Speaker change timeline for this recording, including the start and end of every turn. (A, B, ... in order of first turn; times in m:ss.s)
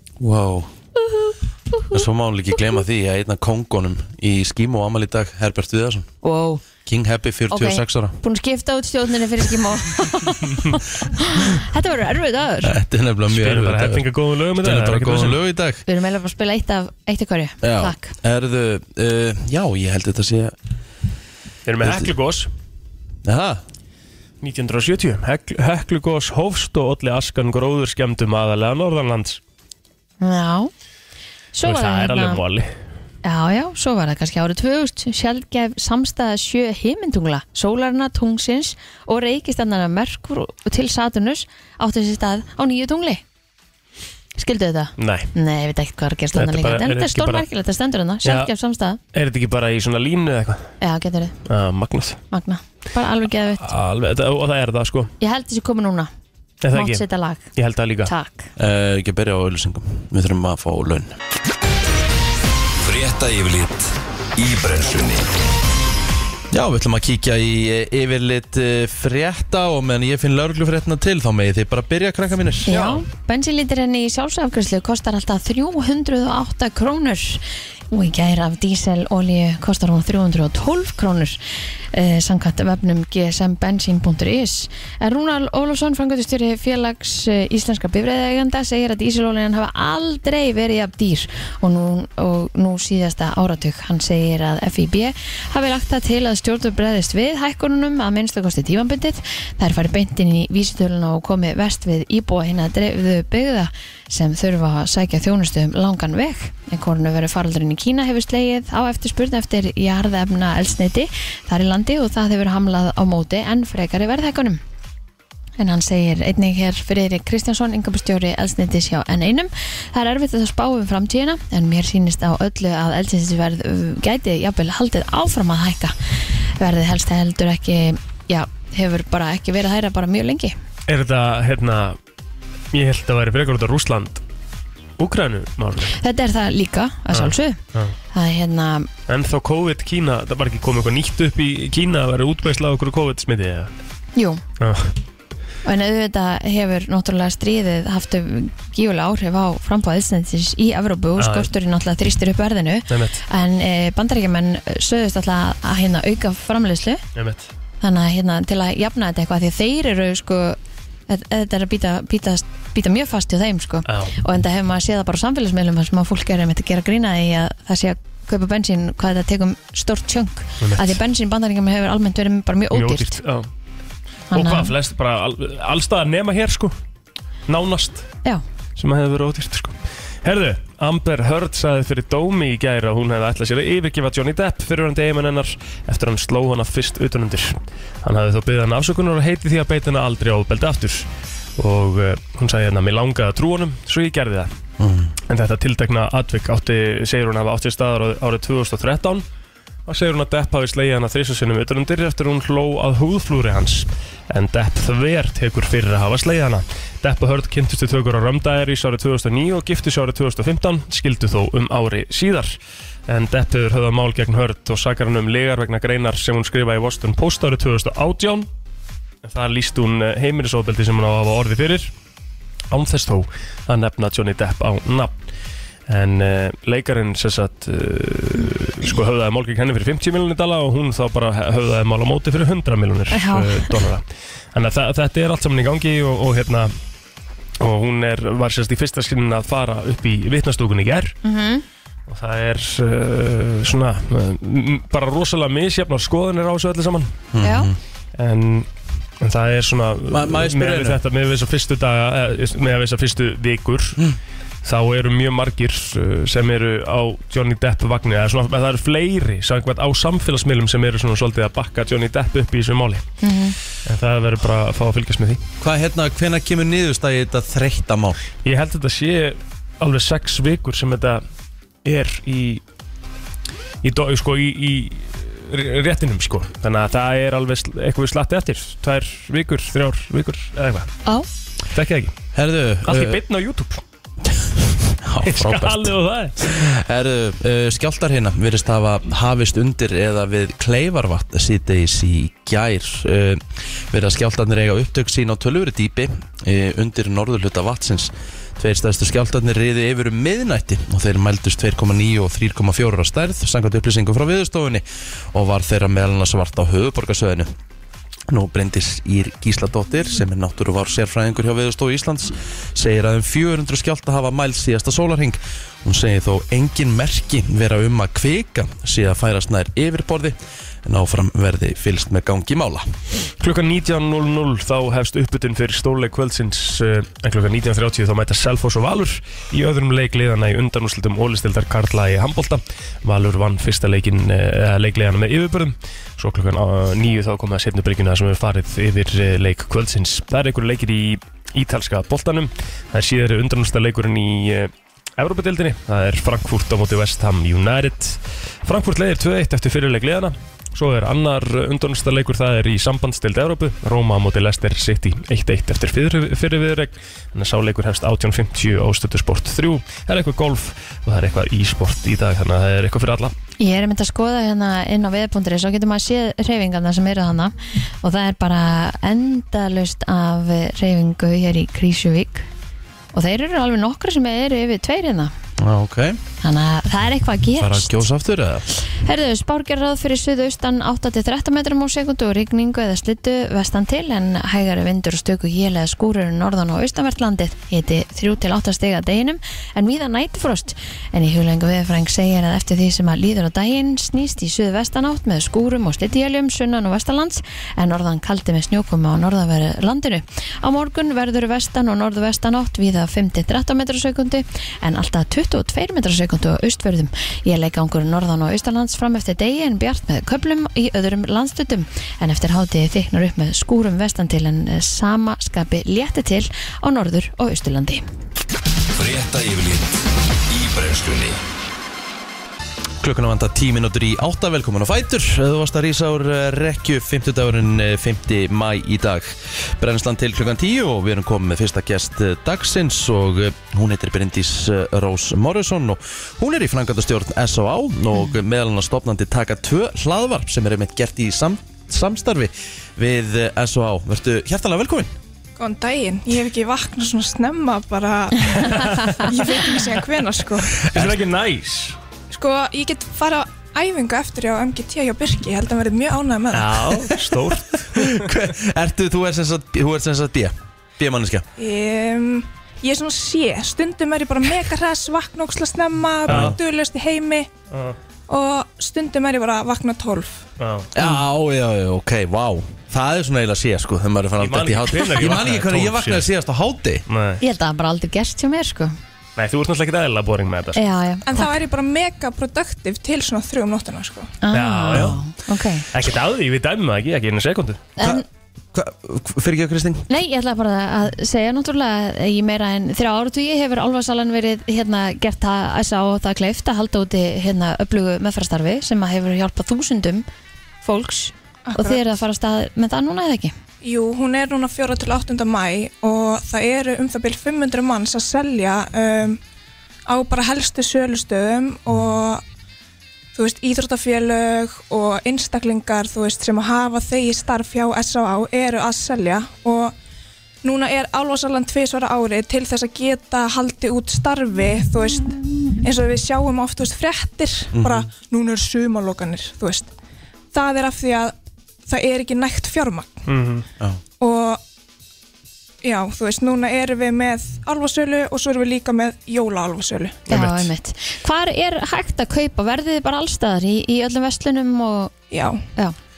0:00.2-0:00.7 A
0:01.0-0:02.0 B
0:01.9-0:06.1 A
0:06.2-0:06.6 B
0:06.8-0:08.2 A
0:07.5-0:12.7 B
0:12.6-0:15.8 A
0:13.3-0:15.4 C
0:15.9-0:18.1 B
0:17.6-0:20.5 A
0:21.6-0:22.5 C
0:21.8-0:22.1 A
0:23.2-0:23.6 A
0:24.4-0:29.4 C
0:30.2-0:30.7 B
0:31.5-0:32.4 B
0:31.6-0:32.7 C
0:33.2-0:43.2 B
0:44.4-0:49.0 B
0:45.0-0:45.3 C
0:46.3-0:47.4 C
0:48.2-0:48.5 C
0:49.1-0:50.7 C
0:50.8-0:51.3 B
0:51.5-0:52.2 C
0:52.3-0:53.7 B
0:53.6-0:55.1 C
0:55.2-0:56.1 B
0:56.6-0:57.0 C
0:56.7-0:57.4 B
0:57.5-0:58.1 C
0:58.0-0:58.5 B
0:58.6-1:01.1 A
1:02.8-1:05.3 D
1:06.5-1:12.8 A
1:12.6-1:21.4 B
1:21.9-1:54.6 B
1:55.6-2:10.5 B
2:10.9-2:12.0 C
2:12.7-2:14.2 C
2:15.0-2:16.0 C
2:16.0-2:17.6 B
2:17.1-2:17.9 C
2:18.1-2:18.9 B
2:19.1-2:23.7 C
2:24.2-2:24.4 B
2:24.6-2:25.0 C
2:25.6-2:37.0 B
2:31.2-2:31.5 C
2:32.9-2:33.2 C
2:37.2-2:37.5 C
2:37.8-2:40.6 B
2:41.1-2:53.2 B
2:43.9-2:44.1 C
2:50.6-2:51.0 C
2:52.7-2:53.5 C
2:54.3-2:54.7 B
2:54.3-2:56.7 C
2:57.5-2:58.1 C
2:58.8-3:11.1 C
3:11.6-3:14.5 C
3:14.8-3:15.1 A
3:15.3-3:19.2 C
3:19.9-3:38.5 C
3:39.2-3:41.9 C
3:42.7-3:45.2 C
3:45.9-3:56.7 C
3:53.1-3:53.8 B
3:57.6-4:01.2 C
4:01.2-4:01.6 B
4:02.1-4:07.1 C
4:07.3-4:07.8 A
4:07.4-4:07.7 B
4:08.2-4:08.7 C
4:09.2-4:14.0 C
4:10.1-4:11.0 A
4:14.6-4:23.0 C
4:23.2-4:23.6 B
4:23.8-4:25.4 C
4:25.6-4:28.2 A
4:28.4-4:31.2 C
4:31.8-4:32.6 C
4:33.8-4:40.9 C
4:41.7-4:42.1 C
4:42.3-4:43.2 A
4:42.8-4:43.8 C
4:44.4-5:07.5 A
4:45.2-4:46.5 C
5:08.3-5:22.9 A
5:23.4-6:03.3 C
6:03.6-6:12.5 B
6:13.1-6:15.3 B
6:15.6-6:16.2 A
6:16.4-6:18.0 B
6:17.6-6:18.6 A
6:19.0-6:58.0 B
6:58.9-7:00.0 D
7:00.5-7:01.4 D
7:03.0-7:25.1 A
7:25.6-7:30.8 E
7:28.6-7:29.3 C
7:30.8-7:32.0 C
7:30.9-7:31.2 A
7:32.3-7:37.0 E
7:36.5-7:38.3 C
7:37.9-7:41.4 A
7:41.6-7:47.5 E
7:46.3-7:46.6 A
7:46.3-7:46.6 C
7:47.7-7:48.0 C
7:48.3-7:50.4 E
7:50.6-7:50.9 C
7:50.9-7:57.0 A
7:54.4-7:56.3 C
7:57.1-7:57.4 C
7:57.4-7:59.0 B
7:59.4-8:00.8 C
8:00.8-8:01.5 B
8:01.3-8:04.3 E
8:04.4-8:05.9 B
8:04.5-8:05.2 C
8:05.9-8:07.8 C
8:08.0-8:08.2 B
8:08.0-8:10.1 A
8:10.1-8:20.2 B
8:20.8-8:23.5 B
8:21.6-8:22.0 E
8:23.8-8:29.4 E
8:30.0-8:32.4 E
8:33.3-8:39.9 E
8:40.6-8:49.9 E
8:47.7-8:48.1 A
8:50.5-8:51.3 E
8:51.9-8:53.2 E
8:53.3-8:53.6 C
8:54.2-8:54.6 E
8:55.8-9:00.2 E
9:00.3-9:05.1 B
9:00.3-9:00.7 C
9:05.3-9:05.6 E